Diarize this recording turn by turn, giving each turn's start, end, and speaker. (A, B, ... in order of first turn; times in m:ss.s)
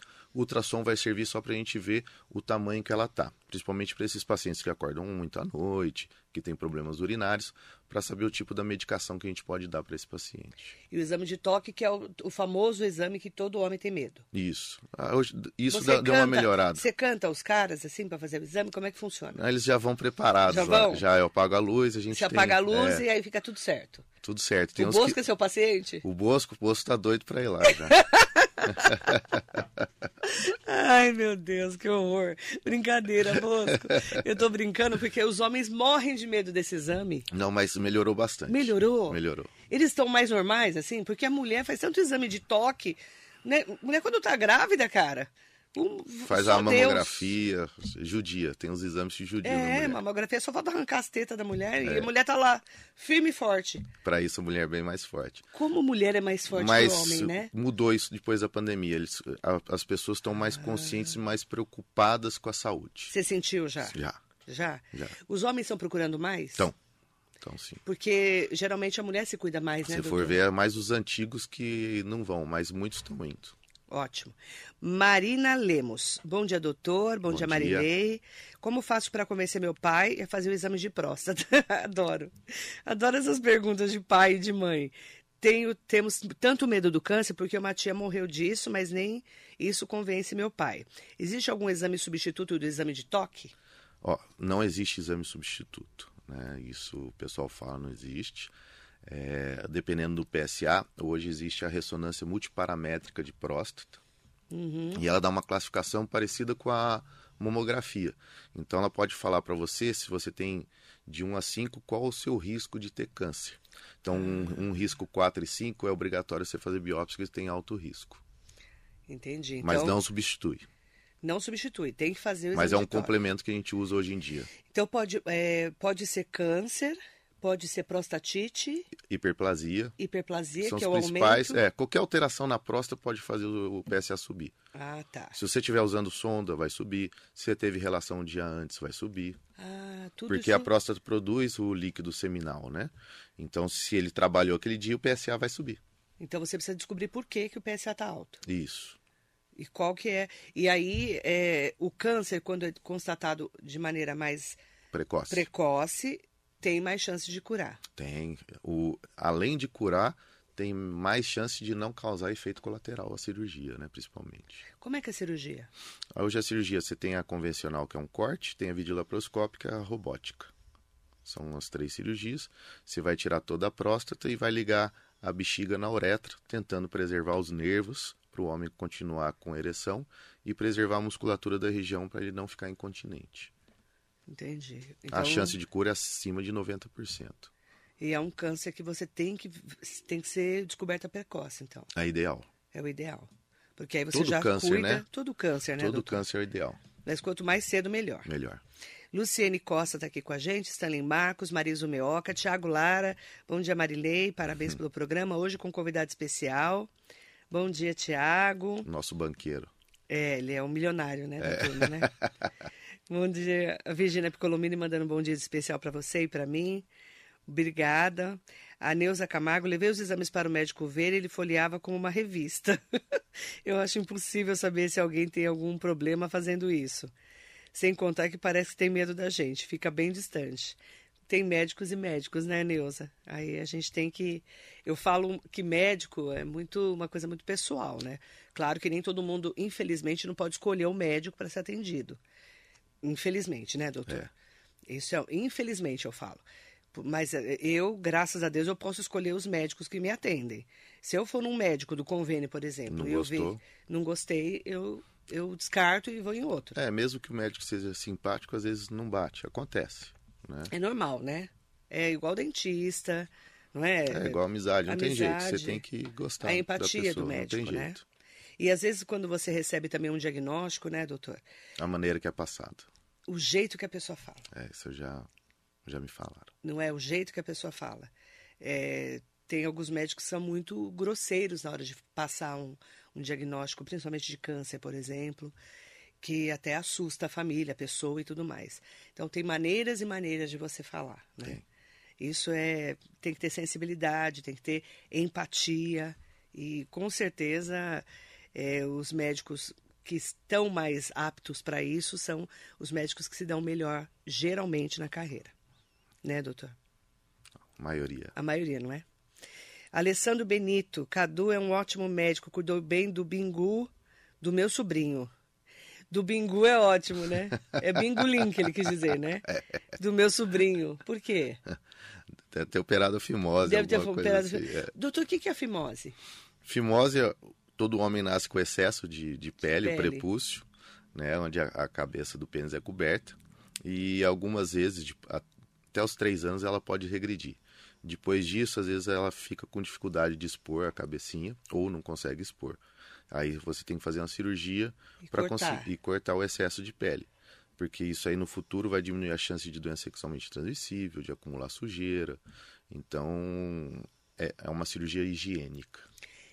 0:00.3-0:10.7 A
0:10.9-0:14.2 B
0:14.3-0:16.8 A
0:15.7-0:19.4 B
0:19.3-0:23.0 A
0:20.5-0:21.0 B
0:22.1-0:24.0 B
0:24.2-0:25.2 A
0:24.8-0:26.0 B
0:26.0-0:28.0 A
0:27.6-0:29.2 B
0:28.7-0:29.6 A
0:30.2-0:37.3 B
0:37.3-0:39.5 A
0:38.5-0:47.3 B
0:46.2-0:50.0 A
0:49.4-0:53.9 B
0:51.8-0:52.1 A
0:54.0-0:55.5 A
0:55.5-0:57.5 B
0:56.5-1:03.1 A
1:03.1-1:06.7 B
1:03.9-1:04.2 A
1:07.4-1:07.8 A
1:07.8-1:10.4 B
1:09.9-1:13.5 A
1:13.9-1:22.3 B
1:17.3-1:17.9 A
1:22.8-1:33.5 B
1:34.0-1:38.5 A
1:39.0-1:44.0 A
1:44.5-1:45.0 B
1:44.9-1:58.2 A
1:59.1-2:00.0 B
1:59.6-2:00.6 A
2:01.2-2:03.2 B
2:02.5-2:04.5 A
2:04.7-2:08.9 B
2:09.0-2:10.0 A
2:10.0-2:11.6 B
2:10.6-2:14.5 A
2:14.7-2:15.4 B
2:15.3-2:19.4 A
2:19.6-2:20.7 B
2:20.3-2:25.8 A
2:26.2-2:28.4 B
2:28.4-2:29.0 A
2:29.6-2:34.6 B
2:34.9-2:35.4 A
2:35.3-2:37.8 B
2:38.0-2:44.6 A
2:44.7-2:45.7 B
2:46.2-2:50.5 A
2:51.2-3:03.5 A
3:04.3-3:05.6 B
3:05.1-3:07.5 A
3:08.0-3:11.9 B
3:11.9-3:12.5 A
3:12.7-3:16.2 B
3:14.1-3:15.0 A
3:15.8-3:16.8 A
3:17.0-3:18.3 B
3:18.2-3:18.6 A
3:19.1-3:26.9 B
3:27.5-3:28.9 B
3:28.8-3:29.7 A
3:30.1-3:32.1 B
3:31.4-3:32.3 A
3:33.1-3:36.9 B
3:37.4-3:43.0 B
3:43.6-3:47.1 B
3:47.7-3:50.8 B
3:51.3-4:02.2 B
4:03.0-4:04.3 B
4:04.9-4:06.4 B
4:06.9-4:16.8 B
4:12.9-4:13.6 A
4:16.7-4:20.7 A
4:20.7-4:25.8 B
4:24.1-4:28.0 A
4:26.4-4:28.0 B
4:28.6-4:31.4 B
4:31.8-4:32.9 A
4:33.3-4:34.5 B
4:34.5-4:35.3 A
4:35.8-4:36.5 A
4:36.6-4:45.6 B
4:46.2-4:51.6 B
4:52.2-5:05.5 B
5:06.2-5:06.8 B
5:07.8-5:08.3 A
5:08.3-5:09.0 B
5:09.9-5:13.9 B
5:14.4-5:15.3 B
5:16.1-5:21.6 B
5:22.5-5:24.9 A
5:23.6-5:26.2 B
5:26.6-5:56.1 A
5:29.8-5:30.2 B
5:45.2-5:45.9 B